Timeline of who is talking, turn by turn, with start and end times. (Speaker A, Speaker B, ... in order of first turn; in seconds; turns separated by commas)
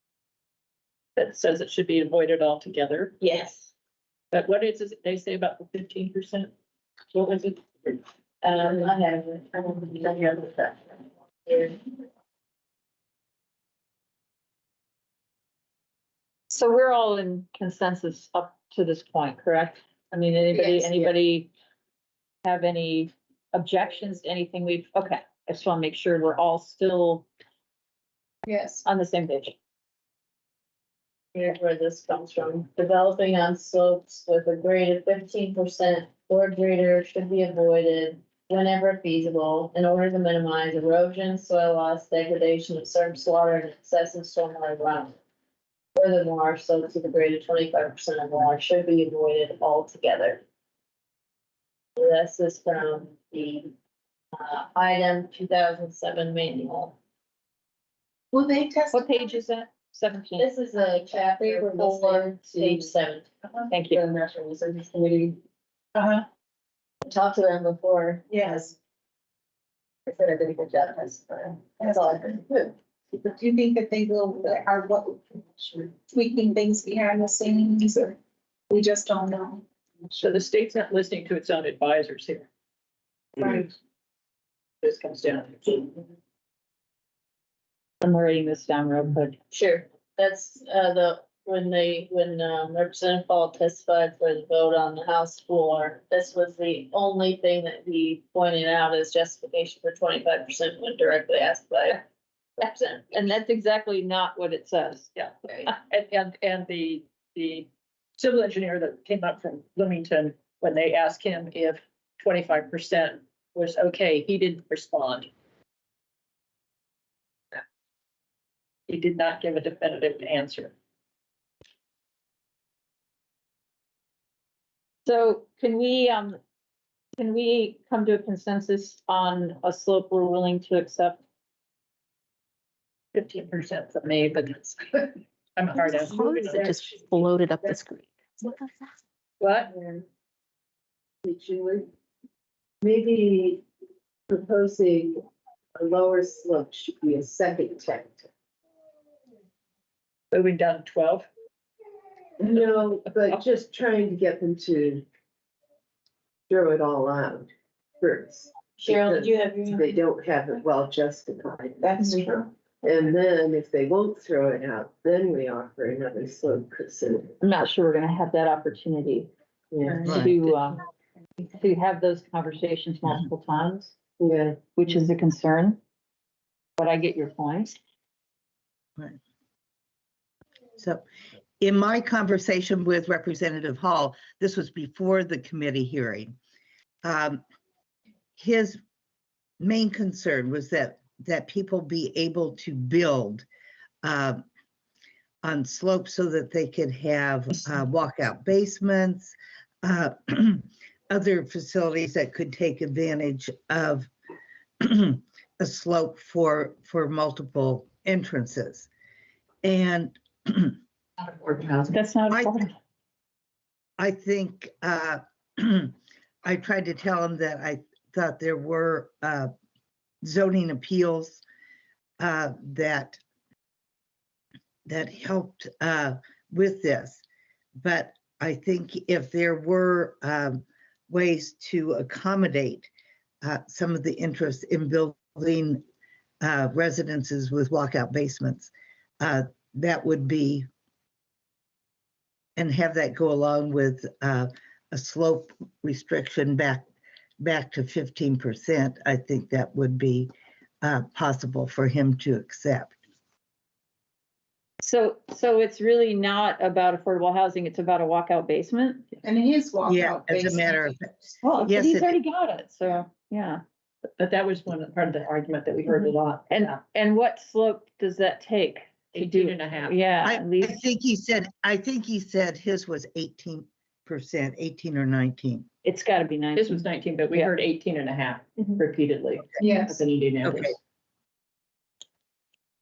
Speaker A: 1.2-3.2, Speaker B: 3.2-3.7, Speaker A: 4.3-6.5, Speaker B: 7.1-11.8, Speaker C: 16.5-21.5, Speaker C: 22.4-27.3, Speaker C: 28.5-29.6, Speaker B: 31.3-45.2, Speaker B: 46.0-50.4, Speaker B: 52.0-53.7, Speaker B: 54.3-57.0, Speaker D: 58.3-59.3, Speaker C: 58.9-60.5, Speaker B: 60.4-63.3, Speaker C: 61.4-62.7, Speaker C: 63.7-64.0, Speaker D: 66.0-66.2, Speaker B: 67.0-68.7, Speaker D: 68.3-68.6, Speaker B: 70.1-72.7, Speaker D: 71.8-72.3, Speaker D: 73.2-78.2, Speaker D: 78.7-79.6, Speaker A: 80.2-82.5, Speaker A: 83.4-83.7, Speaker A: 84.8-85.9, Speaker C: 88.0-89.4, Speaker B: 89.5-102.0, Speaker B: 102.6-103.2, Speaker C: 103.1-105.1, Speaker A: 105.9-115.3, Speaker A: 118.9-120.7, Speaker C: 125.1-126.4, Speaker C: 127.2-131.2, Speaker A: 133.1-136.9, Speaker E: 135.8-138.9, Speaker F: 136.4-137.7, Speaker A: 139.4-139.7, Speaker F: 139.8-140.0, Speaker F: 141.2-141.9, Speaker F: 142.8-143.6, Speaker F: 144.3-145.2, Speaker F: 145.8-148.3, Speaker A: 150.3-151.3, Speaker F: 152.4-155.1, Speaker F: 156.5-162.2, Speaker B: 158.8-160.0, Speaker D: 161.8-162.5, Speaker F: 162.8-167.4, Speaker C: 167.4-169.3, Speaker F: 169.7-170.2, Speaker D: 169.9-170.6, Speaker G: 170.1-170.4, Speaker C: 170.2-170.8, Speaker C: 171.6-173.9, Speaker F: 174.2-174.8, Speaker C: 174.8-175.8, Speaker C: 176.8-177.8, Speaker G: 180.8-181.0, Speaker G: 181.6-186.3, Speaker G: 187.0-187.4, Speaker G: 188.4-188.8, Speaker G: 189.6-193.5, Speaker G: 194.0-194.4, Speaker G: 195.4-204.1, Speaker G: 204.8-208.9, Speaker G: 209.6-210.8, Speaker C: 211.9-212.7, Speaker G: 212.3-212.7, Speaker G: 214.0-219.5, Speaker G: 220.2-221.4, Speaker G: 222.2-223.2, Speaker G: 224.9-227.2, Speaker G: 227.8-232.9, Speaker G: 233.4-235.8, Speaker G: 236.4-240.7, Speaker G: 242.6-246.9, Speaker G: 247.4-250.3, Speaker G: 250.8-253.0, Speaker C: 254.8-259.1, Speaker D: 259.2-260.9, Speaker G: 259.8-262.2, Speaker C: 261.4-263.6, Speaker A: 264.2-266.8, Speaker C: 265.9-270.8, Speaker A: 269.1-270.1, Speaker G: 270.2-275.7, Speaker C: 275.8-276.7, Speaker A: 276.6-280.8, Speaker D: 279.6-279.9, Speaker G: 280.4-280.8